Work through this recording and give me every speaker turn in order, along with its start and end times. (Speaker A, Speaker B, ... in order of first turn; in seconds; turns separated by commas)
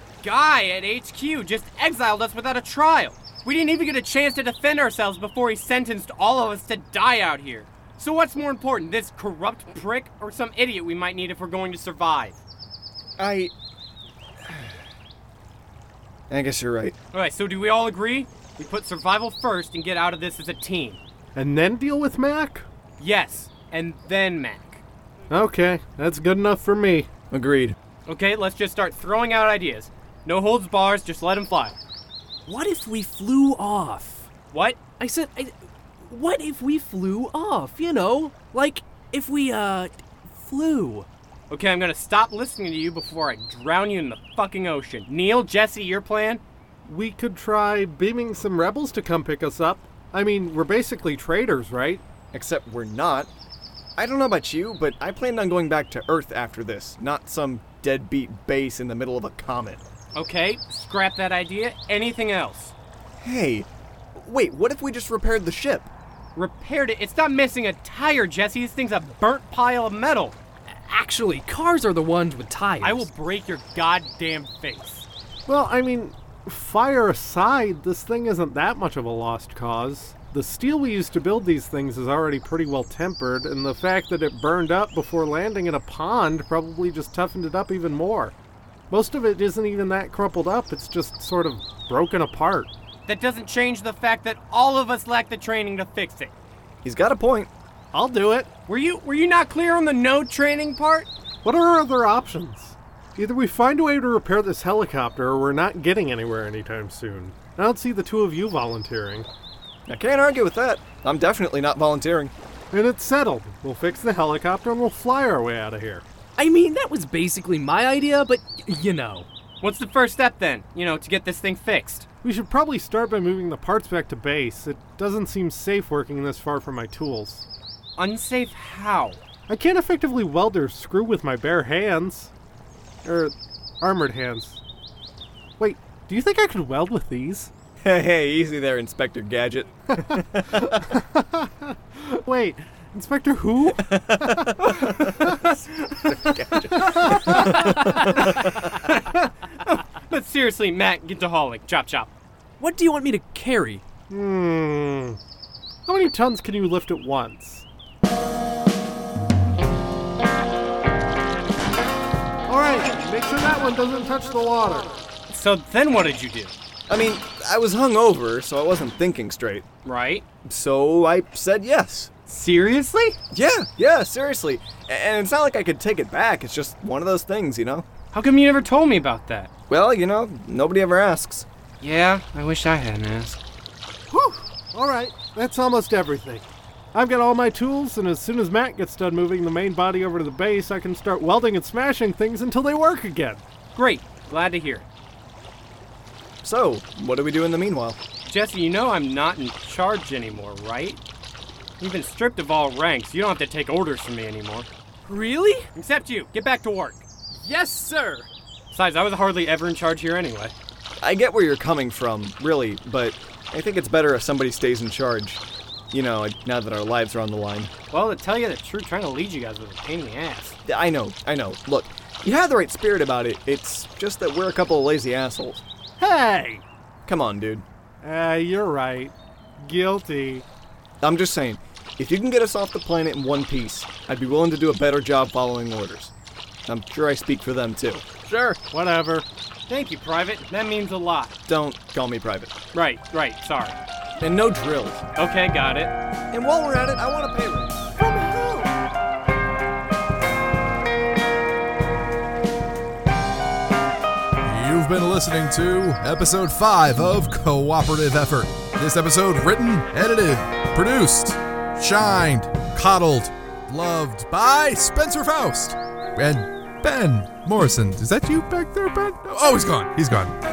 Speaker A: 0.2-12.4, Speaker B: 13.2-13.5, Speaker B: 14.4-14.7, Speaker B: 16.3-16.9, Speaker A: 17.1-21.0, Speaker C: 21.3-22.7, Speaker A: 23.0-24.8, Speaker C: 25.3-27.1, Speaker B: 27.3-27.8, Speaker A: 28.1-31.8, Speaker D: 32.5-34.3, Speaker A: 34.5-34.9, Speaker D: 35.0-41.1, Speaker A: 41.5-46.4, Speaker C: 46.8-52.0, Speaker B: 52.3-53.3, Speaker B: 54.0-59.8, Speaker A: 60.1-62.7, Speaker B: 63.2-65.9, Speaker A: 66.3-70.3, Speaker D: 70.7-73.1, Speaker A: 72.8-75.1, Speaker C: 75.5-88.3, Speaker C: 88.9-92.7, Speaker A: 93.0-96.3, Speaker B: 96.8-97.5, Speaker C: 97.9-98.5, Speaker A: 98.7-101.1, Speaker C: 101.4-109.3, Speaker B: 109.9-112.3, Speaker C: 112.7-116.0, Speaker D: 116.4-119.3, Speaker A: 119.6-122.0, Speaker C: 122.2-127.4, Speaker A: 128.0-129.2, Speaker C: 129.5-132.3, Speaker C: 133.0-134.6, Speaker C: 135.6-137.5, Speaker B: 137.8-140.8, Speaker C: 141.0-144.3, Speaker B: 143.8-148.6, Speaker C: 144.8-145.3, Speaker C: 146.8-147.8, Speaker D: 147.1-148.0, Speaker A: 148.2-152.1, Speaker D: 152.6-153.8, Speaker C: 154.1-155.2, Speaker C: 155.8-157.7, Speaker C: 162.5-165.0, Speaker A: 165.3-166.5, Speaker B: 166.9-169.6, Speaker A: 169.8-170.2, Speaker B: 170.4-172.1, Speaker A: 172.3-173.2, Speaker B: 173.3-177.8, Speaker A: 178.1-179.5, Speaker B: 179.7-181.4, Speaker A: 181.8-183.4, Speaker C: 184.1-193.4, Speaker A: 193.7-194.9, Speaker B: 196.4-198.0, Speaker A: 198.2-201.0, Speaker A: 201.8-204.7, Speaker D: 205.1-205.7, Speaker A: 205.7-207.1, Speaker D: 207.3-208.3, Speaker A: 208.7-210.5, Speaker B: 211.0-217.7, Speaker A: 217.9-220.6, Speaker B: 220.7-225.6, Speaker C: 226.0-226.6, Speaker B: 227.1-227.6, Speaker C: 228.0-230.4, Speaker B: 231.0-236.1, Speaker B: 236.7-238.6, Speaker C: 238.7-239.3, Speaker A: 239.7-241.3, Speaker B: 241.5-242.5, Speaker A: 242.7-243.8, Speaker B: 244.2-245.0, Speaker A: 245.2-245.9, Speaker B: 246.3-247.9, Speaker D: 248.2-248.7, Speaker D: 254.5-259.8, Speaker E: 254.5-270.3, Speaker D: 263.7-265.5, Speaker D: 266.8-267.4, Speaker D: 267.9-269.9